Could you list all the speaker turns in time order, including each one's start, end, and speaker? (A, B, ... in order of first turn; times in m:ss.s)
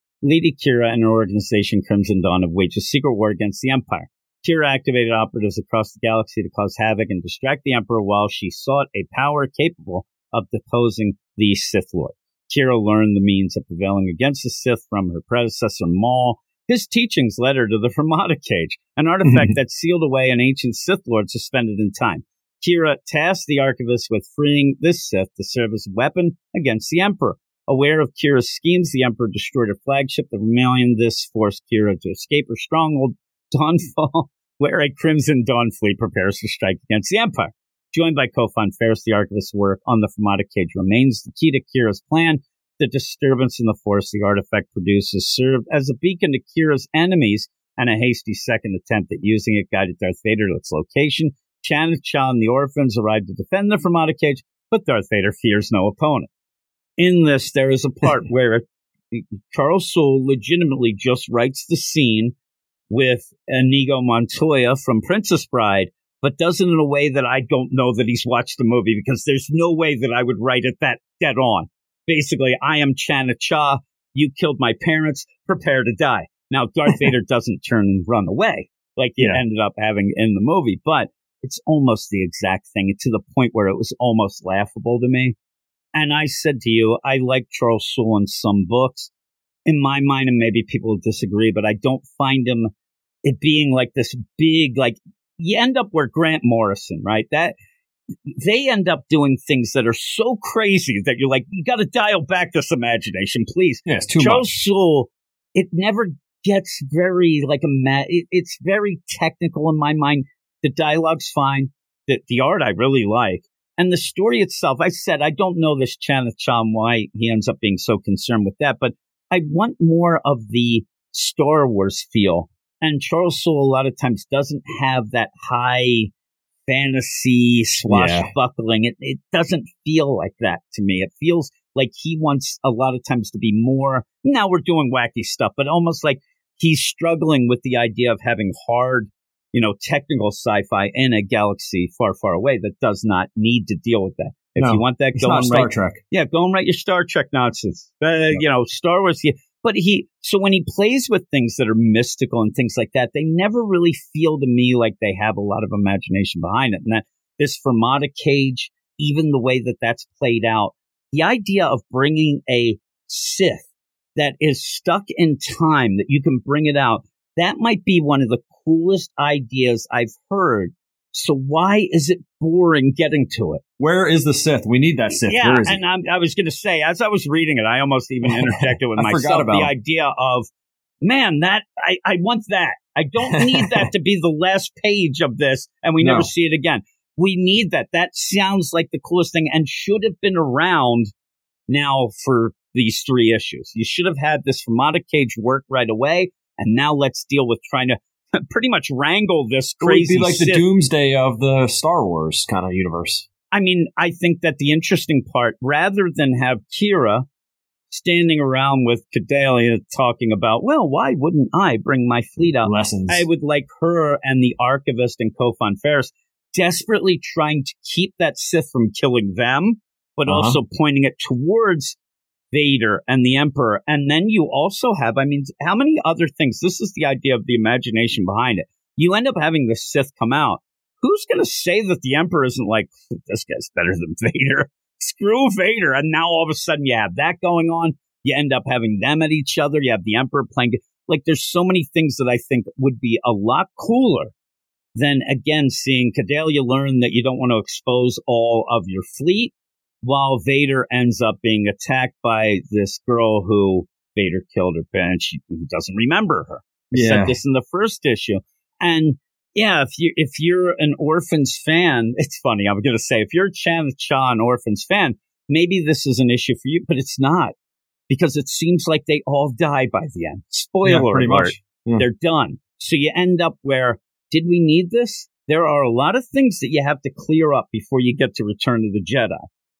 0:00.2-0:56.3 A
0:19.2-0:19.5 B
0:57.0-1:02.3 A
1:02.9-1:25.4 A
1:25.9-1:29.1 A
1:29.6-1:32.7 A
1:33.2-1:37.6 A
1:38.4-2:06.1 A
1:43.8-1:44.4 B
2:06.7-2:53.6 A
2:07.9-2:08.3 B
2:24.6-2:26.0 B
2:53.8-2:55.8 B
2:55.1-3:00.5 A
2:59.0-2:59.7 B
3:01.0-3:11.1 A
3:03.3-3:03.8 B
3:06.0-3:06.3 B
3:11.7-3:20.6 A
3:19.8-3:23.2 B
3:23.5-3:27.3 A
3:27.9-3:42.0 A
3:32.4-3:33.2 B
3:40.2-3:40.6 B
3:42.5-4:04.3 A
4:05.0-4:27.5 A
4:16.9-4:17.4 B
4:28.1-4:39.5 A
4:30.8-4:32.0 B